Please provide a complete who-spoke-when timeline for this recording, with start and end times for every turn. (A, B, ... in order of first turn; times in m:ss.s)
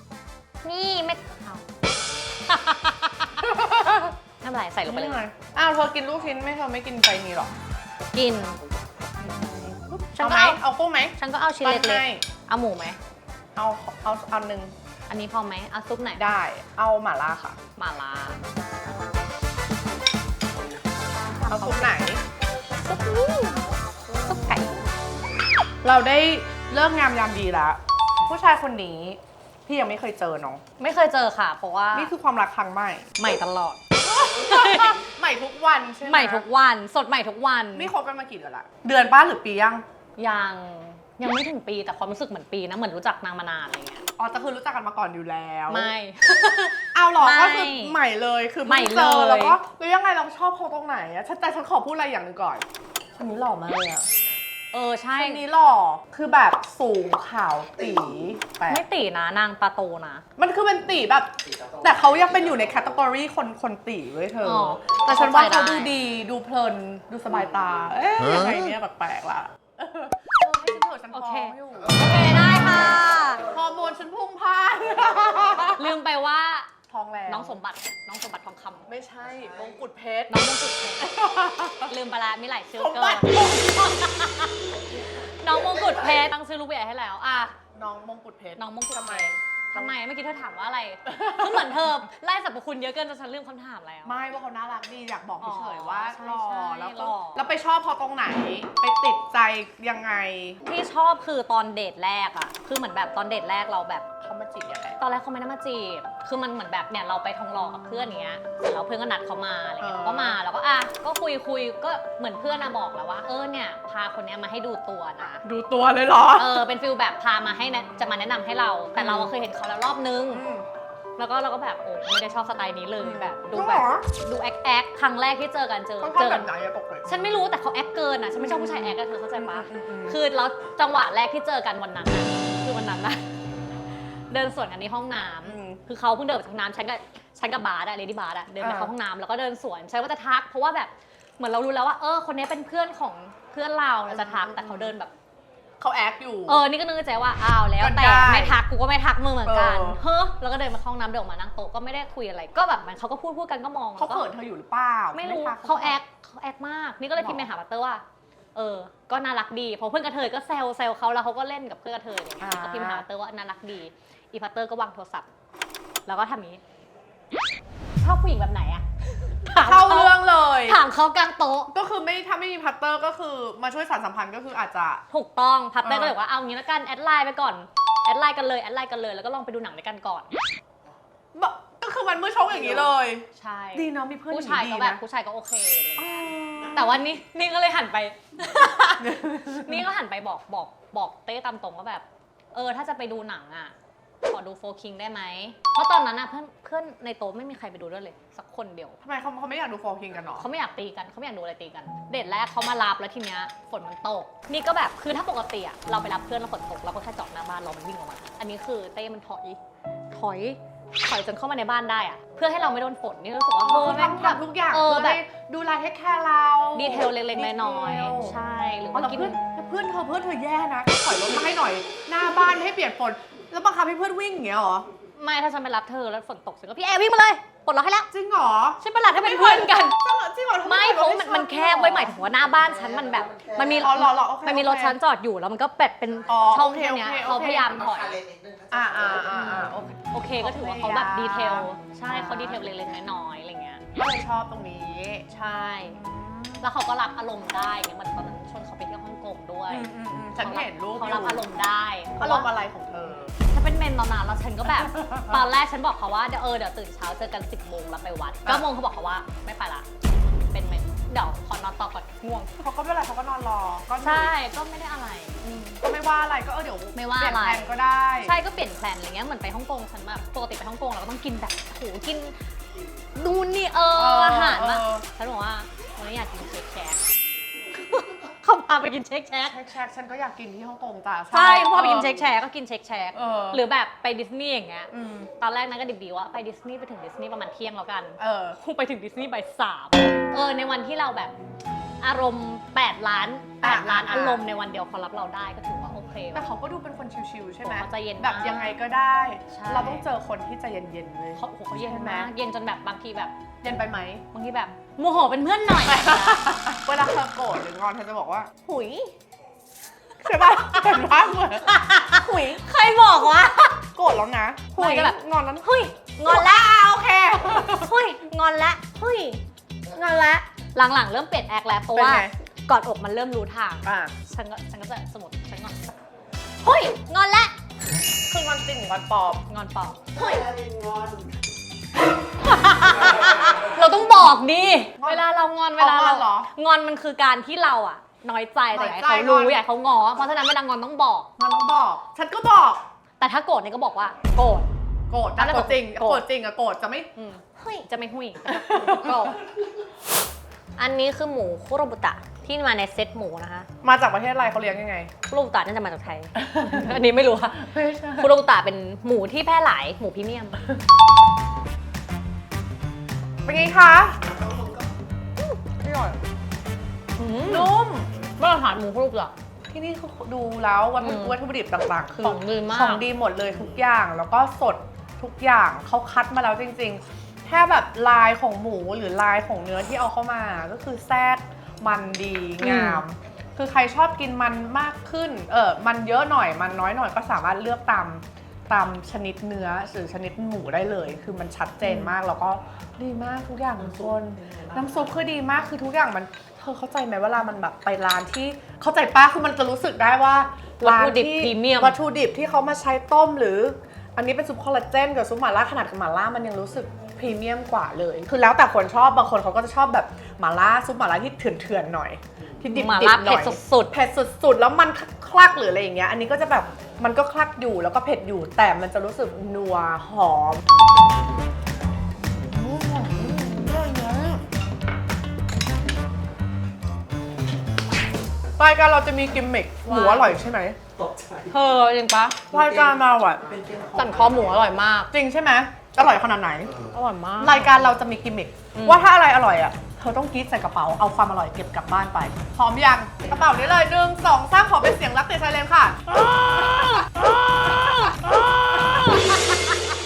0:00.6-0:01.6 A
0:02.5-0:03.4 A
0:03.4-0:04.1 B
0:04.4-0:05.2 A
0:04.8-0:07.5 B
0:08.1-0:08.6 A
0:09.2-0:12.2 B
0:09.3-0:10.6 A
0:11.2-0:13.0 A
0:13.6-0:14.7 B
0:15.1-0:16.2 A
0:16.1-0:17.6 B
0:17.8-0:18.4 A
0:21.2-0:22.0 A
0:21.5-0:22.2 B
0:22.8-0:24.8 A
0:25.8-0:30.6 B
0:30.8-0:32.1 A
0:31.9-0:33.1 B
0:33.2-0:35.0 A
0:34.0-0:36.4 B
0:36.0-0:37.9 A
0:37.7-0:39.8 B
0:40.2-0:44.0 A
0:44.2-0:45.9 B
0:45.7-0:48.0 A
0:46.9-0:52.6 B
0:48.6-0:49.6 A
0:53.2-0:54.0 B
0:54.7-0:55.4 A
0:55.2-0:58.8 B
0:58.7-1:00.2 A
1:00.4-1:15.9 B
1:04.4-1:05.9 A
1:11.1-1:13.4 A
1:15.8-1:16.7 A
1:16.9-1:17.6 B
1:17.3-1:18.9 A
1:18.8-1:20.3 B
1:20.3-1:21.3 A
1:21.0-1:21.9 B
1:21.8-1:27.5 A
1:22.8-1:23.7 B
1:27.7-1:29.9 B
1:28.6-1:34.2 A
1:31.1-1:31.7 B
1:34.0-1:40.6 B
1:35.4-1:37.4 A
1:40.6-1:44.0 A
1:44.2-1:45.0 B
1:45.0-1:55.4 A
1:49.8-1:50.4 B
1:55.4-1:56.6 B
1:56.3-2:00.4 A
1:59.0-1:59.3 B
2:00.3-2:00.6 B
2:01.2-2:06.5 A
2:03.0-2:04.0 B
2:06.0-2:07.2 B
2:07.0-2:13.2 A
2:08.4-2:10.2 B
2:13.9-2:25.1 A
2:15.4-2:15.8 B
2:18.6-2:18.9 B
2:24.1-2:24.9 B
2:25.8-2:26.6 B
2:26.5-2:34.3 A
2:27.8-2:28.6 B
2:29.4-2:30.0 B
2:34.0-2:36.0 B
2:35.1-2:38.0 A
2:37.2-2:37.5 B
2:38.5-2:45.3 A
2:42.4-2:43.0 B
2:46.0-2:46.6 A
2:48.0-2:51.7 A
2:49.6-2:50.8 B
2:51.7-2:55.0 B
2:55.1-3:00.3 A
2:55.8-2:56.1 B
3:01.3-3:05.0 B
3:03.3-3:13.7 A
3:06.0-3:07.0 B
3:09.0-3:09.8 B
3:14.2-3:19.0 A
3:19.0-3:20.5 B
3:20.3-3:29.6 A
3:30.1-3:35.2 A
3:33.6-3:38.4 B
3:36.7-3:39.4 A
3:38.9-3:44.9 B
3:45.2-3:48.1 A
3:48.1-3:52.2 B
3:48.8-3:50.0 A
3:50.6-3:58.2 A
3:52.5-3:53.9 C
3:53.8-3:55.0 B
3:56.3-3:57.9 B
3:57.8-3:59.3 C
3:58.7-4:03.0 B
3:59.2-4:03.8 A
4:03.9-4:05.3 B
4:05.3-4:06.0 A
4:05.8-4:06.6 B
4:06.6-4:12.5 A
4:09.7-4:11.5 B
4:12.2-4:13.3 B
4:13.5-4:19.8 A
4:14.9-4:15.4 B
4:20.5-4:22.6 A
4:22.6-4:24.3 B
4:24.0-4:25.8 A
4:25.8-4:28.4 B
4:26.9-4:32.4 A
4:33.1-4:37.0 A
4:33.9-4:35.0 B
4:37.7-4:39.6 A
4:39.4-4:42.3 B
4:41.3-4:51.3 A
4:43.1-4:43.6 B
4:44.9-4:45.3 B
4:48.2-4:48.6 B
4:52.0-4:56.4 A
4:53.6-4:54.4 B
4:56.3-5:02.3 B
4:57.6-4:58.8 A
4:59.5-5:00.0 A
5:01.4-5:03.3 A
5:03.6-5:04.2 B
5:04.3-5:06.5 A
5:05.8-5:08.5 B
5:08.6-5:09.1 A
5:10.2-5:12.6 B
5:10.5-5:11.0 A
5:11.6-5:13.8 A
5:13.9-5:15.7 B
5:14.8-5:25.9 A
5:16.2-5:17.9 B
5:21.9-5:22.3 B
5:23.8-5:24.1 B
5:26.6-5:27.5 A
5:28.3-5:29.4 B
5:29.5-5:30.4 A
5:30.1-5:31.4 C
5:32.4-5:41.3 A
5:35.0-5:35.2 B
5:35.8-5:36.5 B
5:38.7-5:39.6 B
5:41.4-5:42.8 B
5:43.2-5:44.7 A
5:45.1-5:47.1 B
5:45.4-5:46.2 A
5:47.2-5:49.5 A
5:48.5-5:49.3 B
5:50.8-5:53.7 A
5:53.8-5:55.1 B
5:55.3-6:00.6 A
5:56.4-5:56.9 B
5:57.6-5:58.3 B
6:03.4-6:04.2 B
6:04.2-6:04.9 C
6:05.4-6:06.2 A
6:07.2-6:07.7 A
6:07.5-6:08.1 B
6:08.4-6:09.3 A
6:09.7-7:00.6 B
6:11.0-6:11.4 A
6:12.2-6:13.0 A
6:22.6-6:23.0 A
6:31.8-6:32.1 A
6:33.8-6:35.0 C
6:40.8-6:42.0 A
6:52.7-6:53.9 A
7:02.4-7:04.4 B
7:08.6-7:10.8 B
7:09.8-7:10.3 A
7:11.0-7:11.6 C
7:11.5-7:12.4 A
7:12.5-7:13.5 B
7:12.5-7:14.6 C
7:13.9-7:15.1 A
7:15.1-7:16.7 B
7:16.9-7:17.9 A
7:17.4-7:26.2 B
7:18.7-7:19.0 A
7:26.2-7:29.7 A